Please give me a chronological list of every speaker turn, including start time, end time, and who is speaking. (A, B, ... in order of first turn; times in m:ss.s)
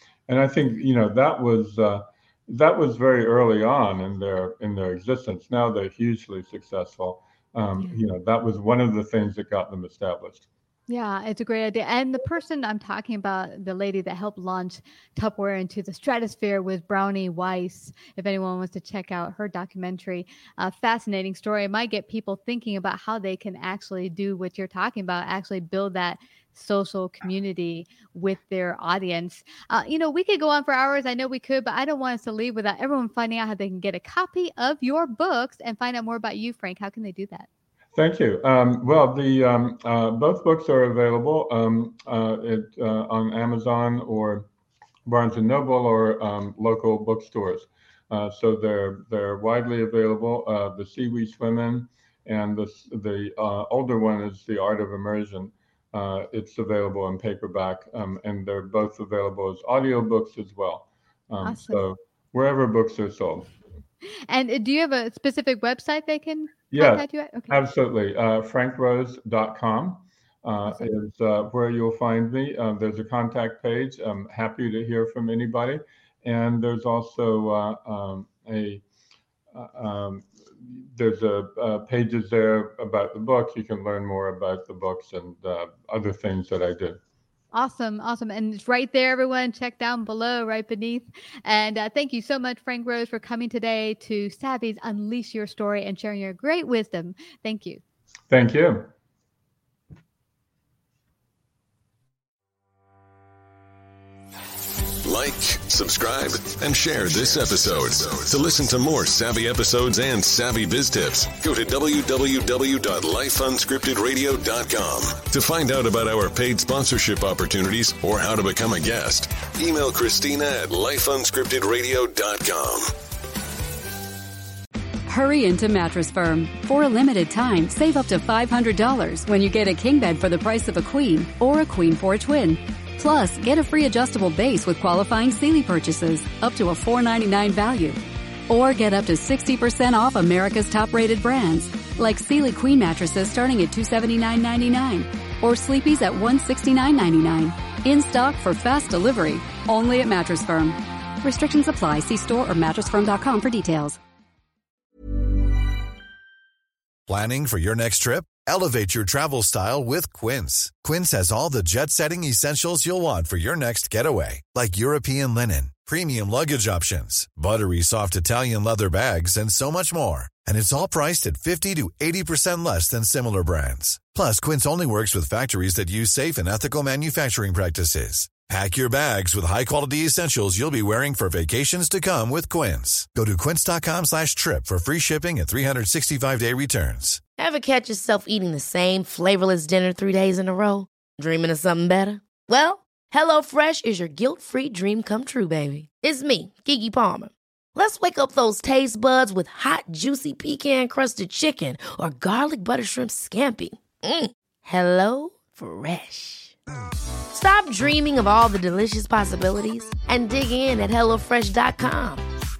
0:00.3-0:10.5 A
0:10.9-0:37.5 B
0:37.9-0:44.5 A
0:45.1-1:03.5 A
1:01.4-1:01.8 B
1:04.3-1:07.6 B
1:06.7-1:18.8 A
1:19.5-1:27.0 A
1:27.5-1:37.8 B
1:38.3-1:38.9 A
1:45.0-2:02.9 C
2:05.1-2:34.0 D
2:37.1-3:07.2 E
3:07.4-3:26.5 F
3:27.3-3:32.2 F